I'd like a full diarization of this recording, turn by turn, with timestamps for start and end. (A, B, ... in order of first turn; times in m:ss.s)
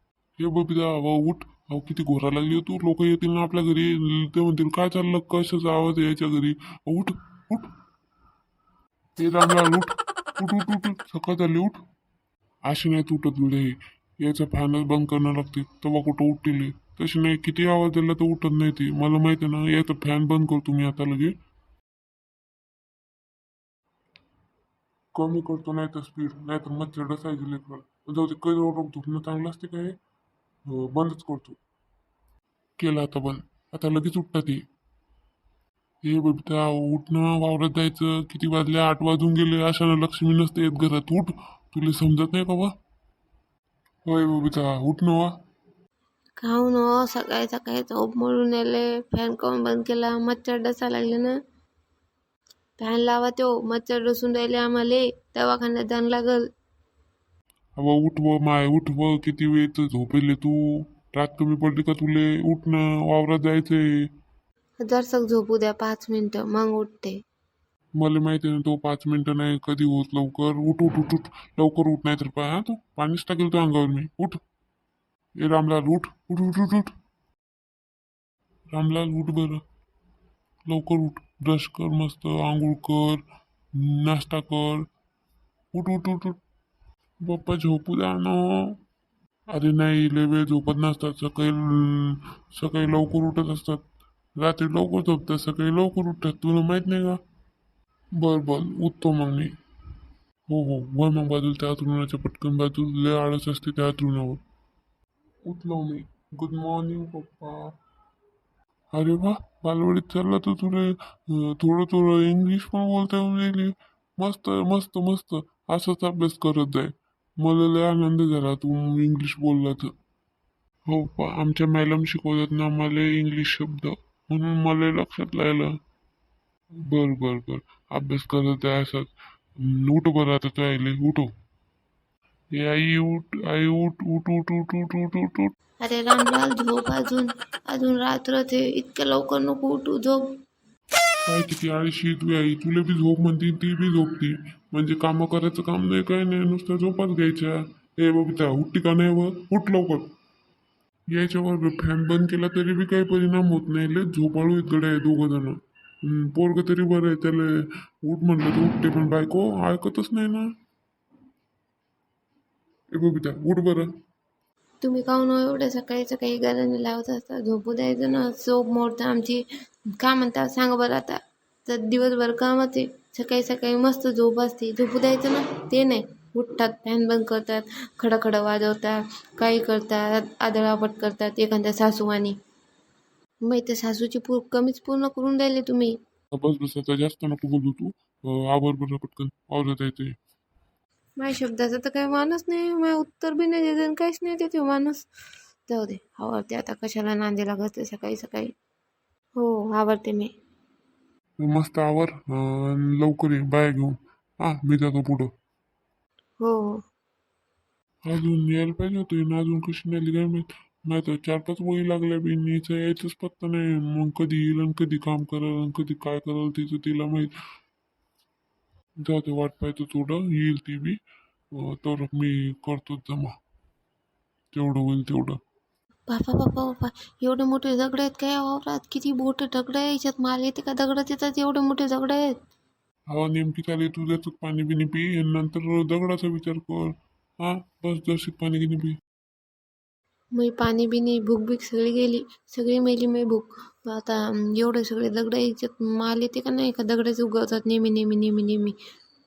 0:00.4-0:07.7 A
0:09.2-0:11.8 A
0:12.6-0:21.4 A
0:25.1-0:30.0 A
0:30.7-0:31.6 A
0:32.8-0:34.6 A
0:36.0-0:42.7 A
0:44.1-0:45.3 A
0:46.4-0:51.4 B
0:52.8-0:56.4 B
0:57.8-1:04.1 A
1:04.8-1:07.2 B
1:08.0-1:14.4 A
1:15.4-1:16.9 A
1:18.7-1:19.6 A
1:20.7-1:24.9 A
1:25.7-1:26.4 A
1:27.2-1:28.8 A
1:29.5-1:33.8 A
1:34.4-1:37.2 A
1:38.2-1:39.5 A
1:40.5-1:44.4 A
1:45.4-1:47.7 A
1:48.9-1:59.9 A
2:00.9-2:05.8 A
2:06.8-2:11.3 A
2:12.5-2:15.5 A
2:15.8-2:20.3 B
2:21.3-2:30.1 A
2:31.1-2:40.5 A
2:42.9-2:43.9 A
2:44.8-2:49.4 B
2:50.0-3:02.4 B
3:03.4-3:06.0 B
3:06.3-3:10.2 A
3:11.2-3:15.1 B
3:15.7-3:18.5 B
3:19.4-3:20.3 B
3:21.4-3:25.3 A
3:26.4-3:26.8 B
3:28.0-3:37.3 A
3:39.0-3:41.0 A
3:41.5-3:43.3 A
3:44.5-3:45.4 A
3:46.1-3:52.3 B
3:53.1-3:59.0 A
4:00.4-4:08.8 B